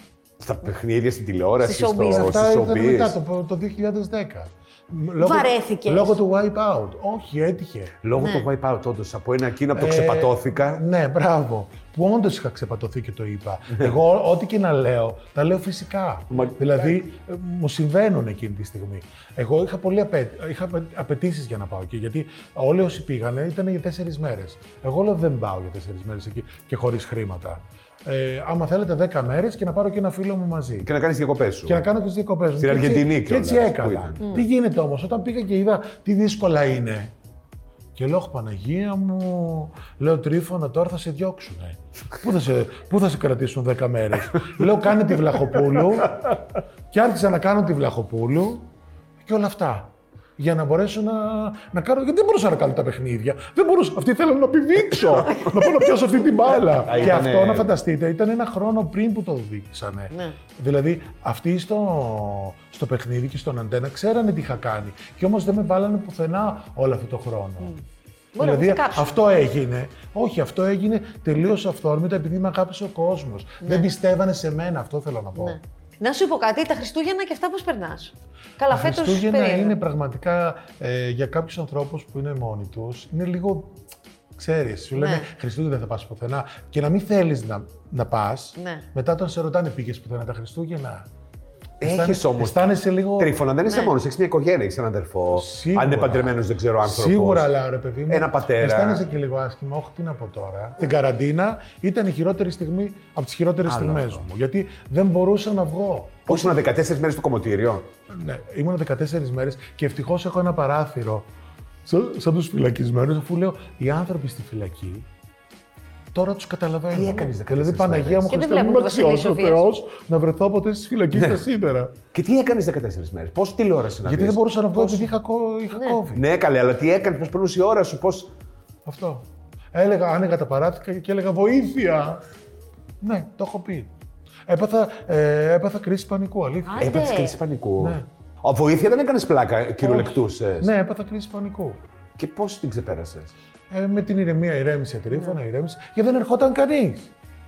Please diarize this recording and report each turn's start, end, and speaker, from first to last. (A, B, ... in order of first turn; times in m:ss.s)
0:00.4-0:03.1 A
0:01.6-0:02.4 B
0:02.0-0:08.0 C
0:05.2-0:06.2 B
0:08.0-0:10.8 A
0:08.1-0:08.5 B
0:09.7-0:30.9 C
0:13.7-0:14.0 A
0:16.3-0:16.9 A
0:30.8-0:31.8 A
0:31.6-0:37.1 C
0:32.6-0:34.4 A
0:37.9-0:46.3 C
0:46.9-0:48.6 C
0:49.2-1:07.8 C
0:56.6-0:57.7 A
1:00.1-1:00.4 B
1:08.3-1:09.1 B
1:08.4-1:15.6 C
1:13.6-1:13.9 B
1:15.4-1:19.8 B
1:18.7-1:23.8 C
1:24.4-1:31.1 C
1:25.0-1:25.3 B
1:28.6-1:28.8 B
1:31.8-1:37.5 A
1:31.8-1:33.3 C
1:33.6-1:33.9 B
1:35.3-1:46.6 C
1:38.1-1:39.0 A
1:43.6-1:44.2 A
1:46.3-1:47.9 A
1:48.1-1:51.3 C
1:51.8-1:55.0 C
1:56.1-2:01.9 C
1:56.9-1:58.3 A
1:58.3-1:59.7 B
2:01.1-2:01.4 A
2:02.1-2:05.2 A
2:04.0-2:06.2 C
2:06.1-2:08.3 A
2:08.8-2:12.2 C
2:13.0-2:13.9 C
2:14.5-2:17.0 C
2:16.6-2:17.4 B
2:16.8-2:20.7 A
2:17.8-2:18.0 C
2:19.8-2:21.8 C
2:22.2-2:23.3 A
2:23.7-2:27.1 C
2:25.1-2:25.4 B